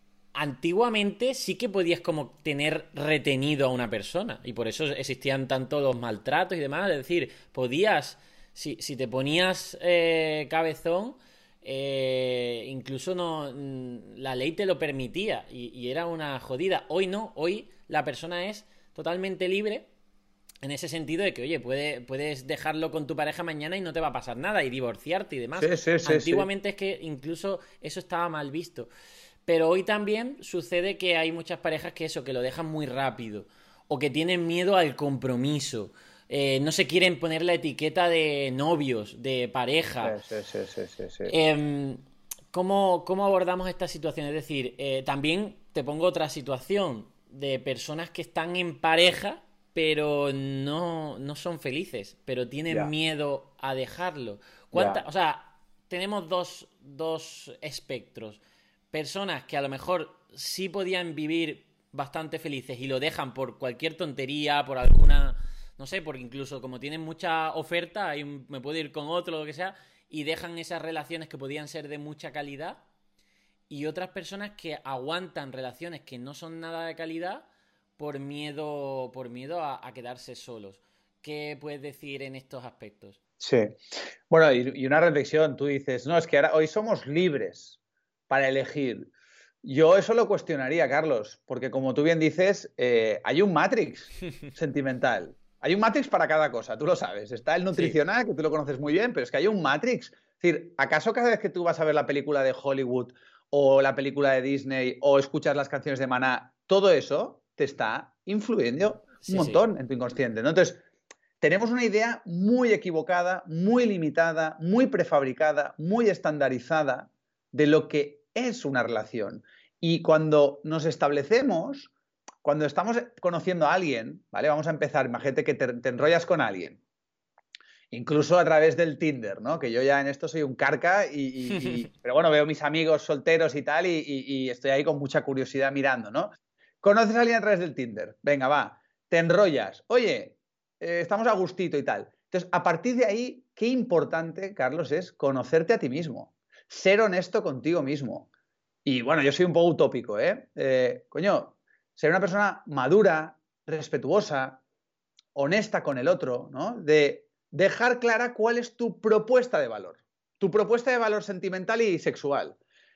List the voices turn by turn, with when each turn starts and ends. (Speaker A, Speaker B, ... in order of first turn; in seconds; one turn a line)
Speaker A: 0.3-19.9
Speaker A: 20.6-28.9
Speaker B: 25.6-26.5
Speaker A: 29.5-40.2
Speaker B: 40.0-41.3
Speaker A: 41.3-42.0
Speaker A: 42.5-72.8
Speaker B: 54.7-55.0
Speaker A: 73.7-77.5
Speaker A: 78.0-83.2
Speaker B: 83.4-83.7
Speaker B: 84.3-87.8
Speaker B: 88.3-89.1
Speaker B: 89.6-110.8
Speaker A: 109.2-109.6
Speaker B: 111.4-121.9
Speaker B: 122.4-126.8
Speaker B: 127.9-148.3
Speaker B: 148.8-154.6
Speaker B: 155.3-162.6